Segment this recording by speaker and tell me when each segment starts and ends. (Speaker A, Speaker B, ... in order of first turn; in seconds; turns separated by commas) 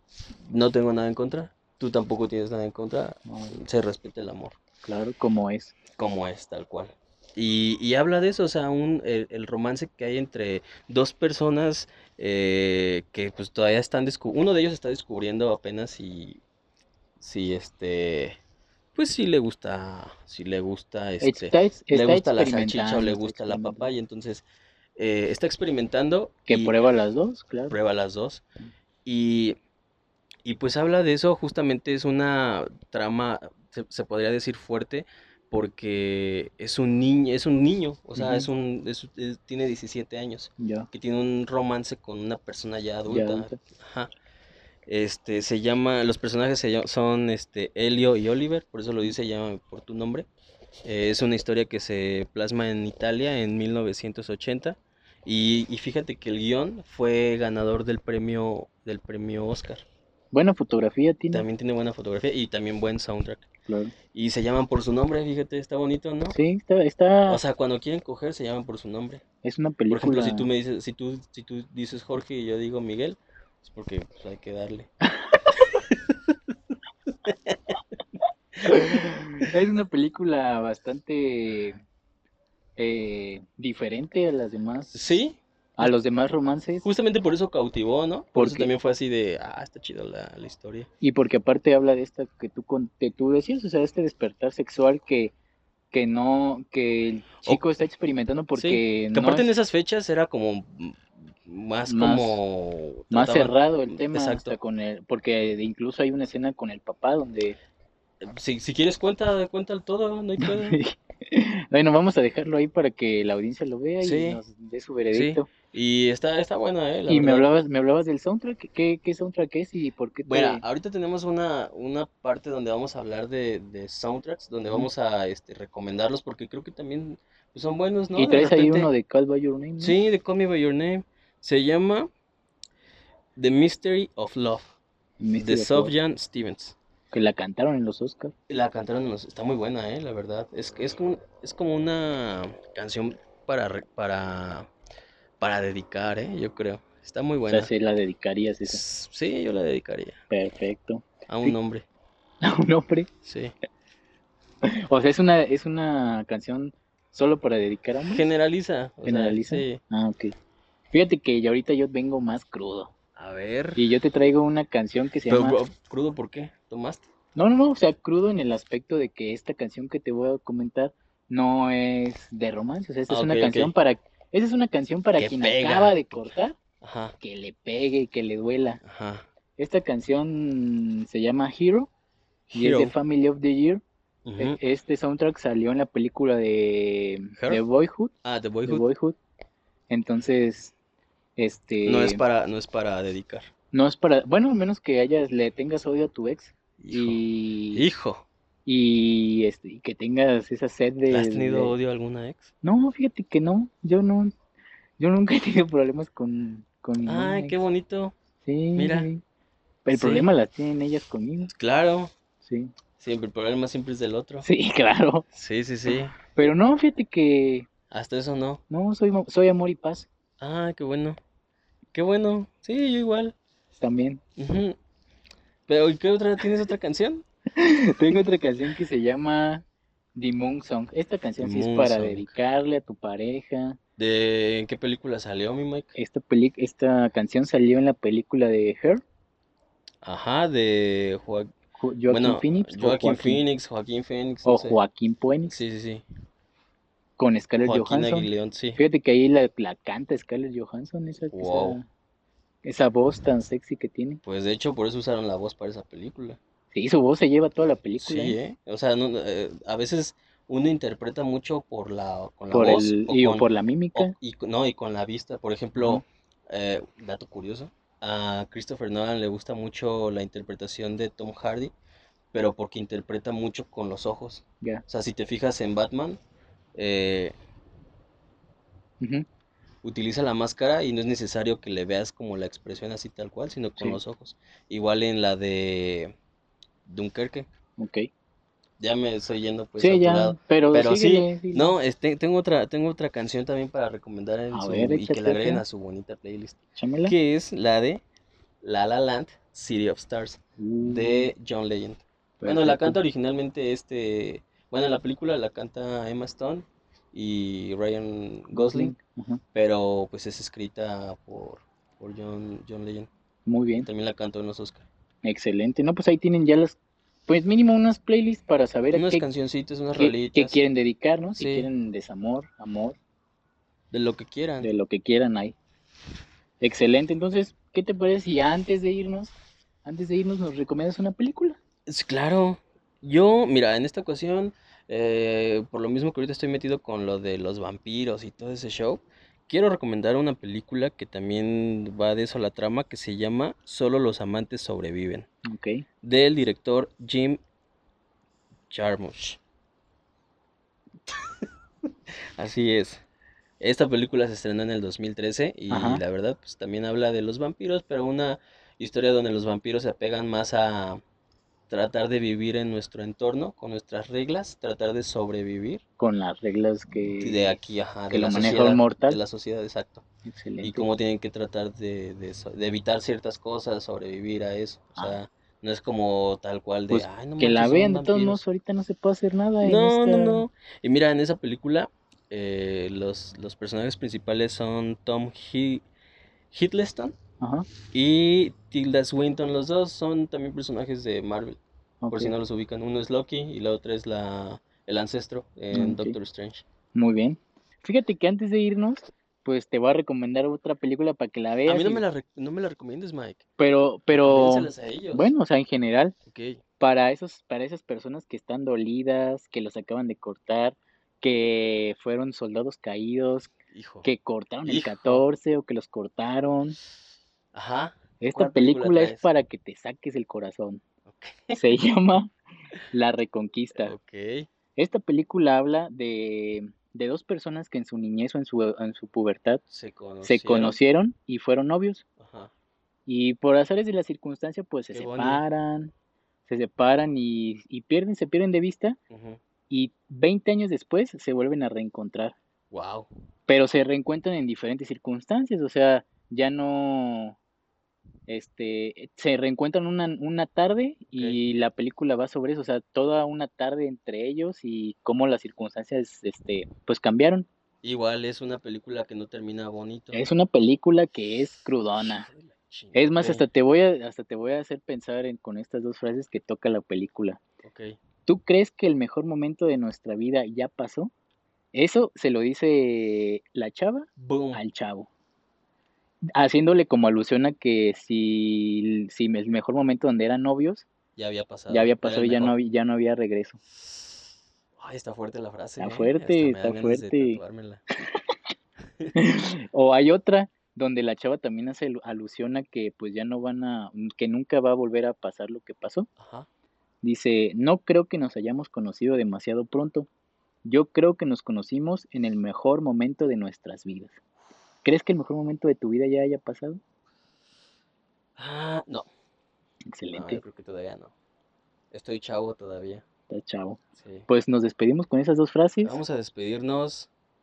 Speaker A: 0.5-4.6, Speaker B: 3.3-3.6, Speaker B: 4.8-5.8, Speaker A: 5.9-16.4, Speaker A: 17.2-18.4, Speaker A: 18.9-24.4, Speaker B: 21.2-23.9, Speaker A: 25.0-26.8, Speaker B: 26.5-27.8, Speaker A: 27.7-28.4, Speaker A: 29.1-29.6, Speaker A: 30.4-44.1, Speaker B: 38.1-38.5, Speaker B: 40.6-40.9, Speaker B: 43.1-43.6, Speaker A: 44.9-50.3, Speaker A: 50.9-59.9, Speaker B: 60.3-61.5, Speaker A: 61.3-63.5, Speaker B: 63.7-63.9, Speaker A: 64.1-66.4, Speaker B: 66.3-67.4, Speaker A: 67.3-69.2, Speaker B: 69.4-70.5, Speaker A: 69.9-74.9, Speaker A: 75.5-76.5, Speaker A: 77.2-77.8, Speaker B: 78.6-81.8, Speaker B: 82.8-85.1, Speaker A: 84.9-85.9, Speaker B: 85.8-86.9, Speaker A: 86.8-90.9, Speaker B: 88.3-88.7, Speaker B: 91.0-95.3, Speaker B: 95.9-99.5, Speaker A: 98.5-104.5, Speaker B: 101.9-102.4, Speaker B: 103.1-107.6, Speaker A: 108.2-110.8, Speaker B: 110.4-115.5, Speaker A: 114.0-114.4, Speaker A: 115.1-117.5, Speaker B: 117.1-120.6, Speaker A: 120.2-128.9, Speaker B: 128.2-130.0, Speaker A: 129.8-132.1, Speaker A: 133.4-134.8, Speaker B: 135.2-135.9, Speaker A: 135.4-136.8, Speaker B: 137.1-138.3, Speaker A: 138.5-144.7, Speaker A: 145.4-147.7, Speaker B: 147.5-148.8, Speaker A: 148.6-150.2, Speaker B: 150.3-151.5, Speaker A: 151.3-151.8, Speaker B: 152.4-153.1, Speaker A: 153.2-153.5, Speaker B: 154.7-158.2, Speaker A: 158.1-159.8, Speaker B: 159.1-160.3, Speaker B: 160.9-162.9, Speaker A: 163.2-163.8, Speaker B: 163.8-165.6, Speaker A: 165.3-167.1, Speaker B: 167.4-176.6, Speaker A: 173.1-173.7, Speaker A: 175.2-176.2, Speaker A: 176.8-177.2, Speaker B: 177.2-178.8, Speaker A: 178.8-179.3, Speaker B: 179.6-181.9, Speaker A: 182.5-182.9, Speaker B: 182.5-183.8, Speaker A: 184.2-184.6, Speaker B: 184.4-188.1, Speaker A: 188.2-188.9, Speaker B: 188.6-189.2, Speaker B: 189.9-190.7, Speaker B: 191.4-192.2, Speaker A: 191.8-193.5, Speaker B: 193.7-197.9, Speaker A: 196.8-198.2, Speaker B: 198.7-201.8, Speaker A: 201.1-202.5, Speaker B: 202.6-204.3, Speaker B: 205.0-207.6, Speaker A: 207.1-208.1, Speaker B: 208.4-209.2, Speaker A: 208.8-209.1, Speaker B: 209.8-211.5, Speaker A: 209.9-210.3, Speaker A: 211.5-212.1, Speaker B: 212.4-212.7, Speaker A: 213.0-214.5, Speaker B: 214.4-215.3, Speaker A: 215.3-216.2, Speaker B: 215.9-217.7, Speaker A: 217.9-218.6, Speaker B: 218.7-220.1, Speaker A: 220.4-221.2, Speaker A: 221.9-223.3, Speaker B: 223.8-224.2, Speaker A: 224.4-224.8, Speaker A: 225.7-227.2, Speaker B: 227.6-229.6, Speaker B: 230.1-233.8, Speaker A: 231.4-232.3, Speaker A: 234.0-235.9, Speaker B: 235.9-239.0, Speaker A: 240.0-241.5, Speaker B: 241.8-243.4, Speaker A: 242.1-244.8, Speaker B: 244.4-245.6, Speaker A: 245.5-246.0, Speaker B: 247.2-251.8, Speaker A: 247.6-248.8, Speaker A: 251.3-251.8, Speaker B: 252.6-254.2, Speaker A: 254.2-256.4, Speaker B: 256.7-258.4, Speaker A: 258.0-271.7, Speaker B: 262.5-264.1, Speaker A: 272.3-276.2, Speaker A: 276.8-277.4, Speaker B: 279.0-279.3, Speaker A: 279.8-286.1, Speaker A: 286.9-287.5, Speaker B: 287.8-288.1, Speaker A: 288.8-298.0, Speaker B: 289.8-291.7, Speaker B: 294.5-295.6, Speaker B: 296.8-297.1, Speaker A: 298.6-308.9, Speaker B: 300.6-301.3, Speaker B: 302.4-303.0, Speaker B: 308.5-309.4, Speaker A: 309.5-313.1, Speaker B: 313.4-313.9, Speaker A: 313.8-314.9, Speaker B: 315.2-319.3, Speaker A: 318.9-320.6, Speaker B: 319.9-323.0, Speaker A: 321.4-321.7, Speaker A: 323.9-324.7, Speaker B: 324.6-325.6, Speaker B: 326.6-331.6, Speaker A: 331.9-345.3, Speaker B: 345.4-345.9, Speaker A: 346.0-347.4, Speaker A: 348.7-349.4, Speaker A: 351.1-351.4, Speaker A: 352.1-353.0, Speaker A: 353.6-361.0, Speaker B: 355.7-356.0, Speaker A: 361.7-365.8, Speaker B: 366.0-367.6, Speaker A: 367.2-370.1, Speaker B: 368.1-369.2, Speaker B: 370.3-370.9, Speaker A: 370.6-378.4, Speaker B: 376.9-380.4, Speaker A: 379.6-385.9, Speaker A: 386.5-387.2, Speaker B: 387.4-387.7, Speaker A: 387.9-391.6, Speaker B: 392.0-392.3, Speaker A: 392.1-396.6, Speaker B: 395.7-396.2, Speaker B: 396.9-402.0, Speaker A: 401.6-403.4, Speaker B: 403.6-406.1, Speaker A: 404.1-405.3, Speaker A: 406.3-406.6, Speaker B: 406.8-413.5, Speaker A: 413.7-414.1, Speaker B: 414.0-416.8, Speaker A: 414.6-415.3, Speaker A: 417.5-419.3, Speaker B: 418.2-420.8, Speaker A: 421.1-421.6, Speaker B: 421.5-422.3, Speaker B: 422.9-423.9, Speaker A: 423.8-424.5, Speaker B: 424.8-429.6, Speaker A: 429.7-430.8, Speaker B: 430.2-432.1, Speaker A: 432.2-432.5, Speaker B: 433.1-435.9, Speaker A: 434.9-435.4, Speaker B: 436.5-439.0, Speaker A: 439.1-439.4, Speaker B: 439.7-442.4, Speaker A: 442.7-443.1, Speaker B: 443.5-447.4, Speaker B: 448.3-457.5, Speaker A: 451.1-451.4, Speaker A: 457.8-460.2, Speaker B: 460.1-462.3, Speaker A: 462.0-463.4, Speaker B: 462.9-467.4, Speaker A: 467.6-468.0, Speaker B: 468.3-471.1, Speaker B: 471.7-475.1, Speaker A: 474.2-474.6, Speaker B: 476.4-480.9, Speaker A: 481.1-482.6, Speaker B: 481.7-483.6, Speaker A: 483.8-487.8, Speaker B: 485.8-487.4, Speaker B: 489.1-496.1, Speaker A: 496.2-496.5, Speaker B: 497.0-500.1, Speaker B: 500.6-504.2, Speaker B: 504.8-506.8, Speaker A: 508.4-509.1, Speaker B: 509.9-510.4, Speaker A: 510.1-511.1, Speaker A: 511.9-513.0, Speaker B: 513.3-516.0, Speaker A: 514.0-514.3, Speaker A: 515.8-517.1